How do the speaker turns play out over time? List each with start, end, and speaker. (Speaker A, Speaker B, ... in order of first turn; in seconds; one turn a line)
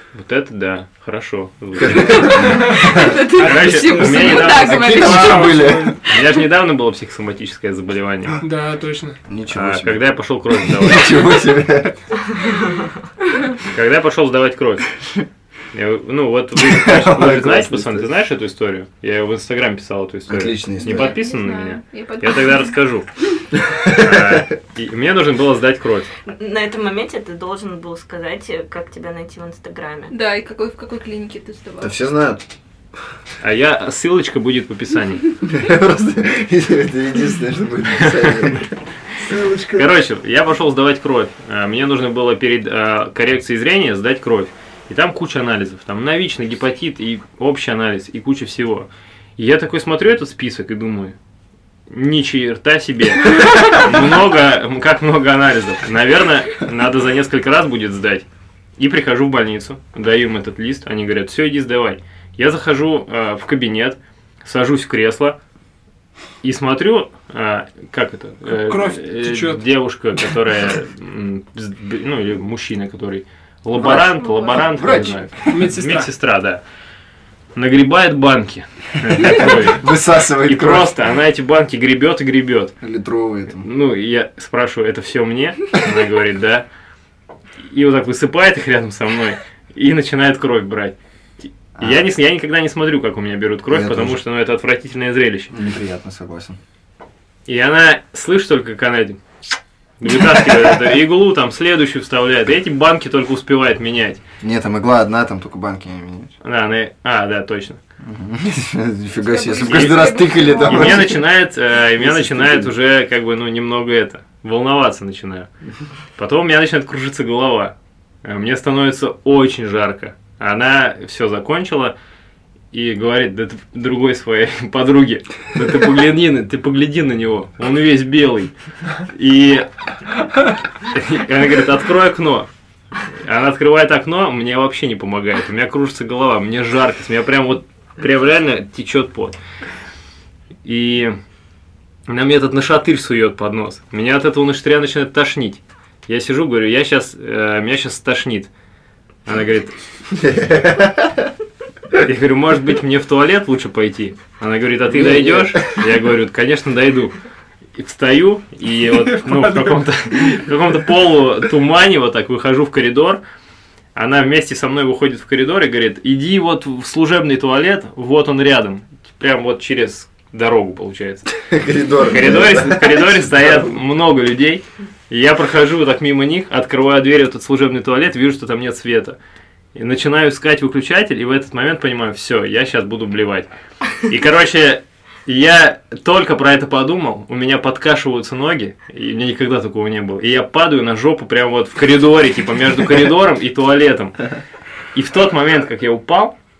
Speaker A: 0.1-8.4
Speaker B: 1.8-3.0
Speaker C: 1.9-6.4
Speaker D: 2.4-6.0
Speaker B: 4.3-6.0
Speaker D: 8.4-9.2
Speaker B: 9.3-12.0
Speaker A: 9.5-11.3
Speaker E: 12.4-12.9
Speaker A: 13.7-14.9
Speaker A: 15.7-23.1
Speaker B: 16.6-18.1
Speaker B: 20.3-21.1
Speaker C: 20.8-22.7
Speaker B: 23.5-24.5
Speaker A: 23.9-26.1
Speaker E: 26.3-30.1
Speaker C: 30.1-31.9
Speaker B: 31.8-32.4
Speaker A: 33.4-35.3
Speaker B: 35.4-38.7
Speaker A: 38.0-38.5
Speaker B: 39.2-39.9
Speaker A: 39.7-51.1
Speaker A: 51.9-58.3
Speaker A: 58.8-65.4
Speaker A: 66.4-76.6
Speaker D: 68.5-69.6
Speaker B: 73.8-75.7
Speaker C: 74.2-74.5
Speaker D: 75.5-76.1
Speaker A: 77.6-79.9
Speaker B: 79.1-80.9
Speaker A: 80.4-82.7
Speaker B: 82.8-83.7
Speaker A: 83.6-86.7
Speaker A: 87.6-91.0
Speaker A: 91.8-95.5
Speaker B: 93.7-94.2
Speaker B: 95.5-96.6
Speaker A: 97.5-99.2
Speaker A: 100.0-104.2
Speaker B: 104.4-106.3
Speaker A: 106.4-107.8
Speaker B: 108.0-111.2
Speaker C: 109.2-111.1
Speaker A: 109.7-110.0
Speaker A: 110.6-115.5
Speaker B: 112.0-112.7
Speaker A: 116.2-122.0
Speaker A: 122.7-128.5
Speaker A: 129.1-129.7
Speaker A: 130.8-132.5
Speaker A: 133.1-139.4
Speaker A: 140.6-141.2
Speaker A: 142.1-148.5
Speaker A: 149.3-149.7
Speaker B: 150.1-151.3
Speaker A: 152.0-157.2
Speaker B: 154.9-155.8
Speaker A: 157.8-163.2
Speaker D: 159.1-159.8
Speaker A: 163.9-171.3
Speaker B: 171.4-173.7
Speaker A: 172.1-179.2
Speaker A: 179.8-183.5
Speaker A: 184.0-194.3
Speaker A: 194.9-196.3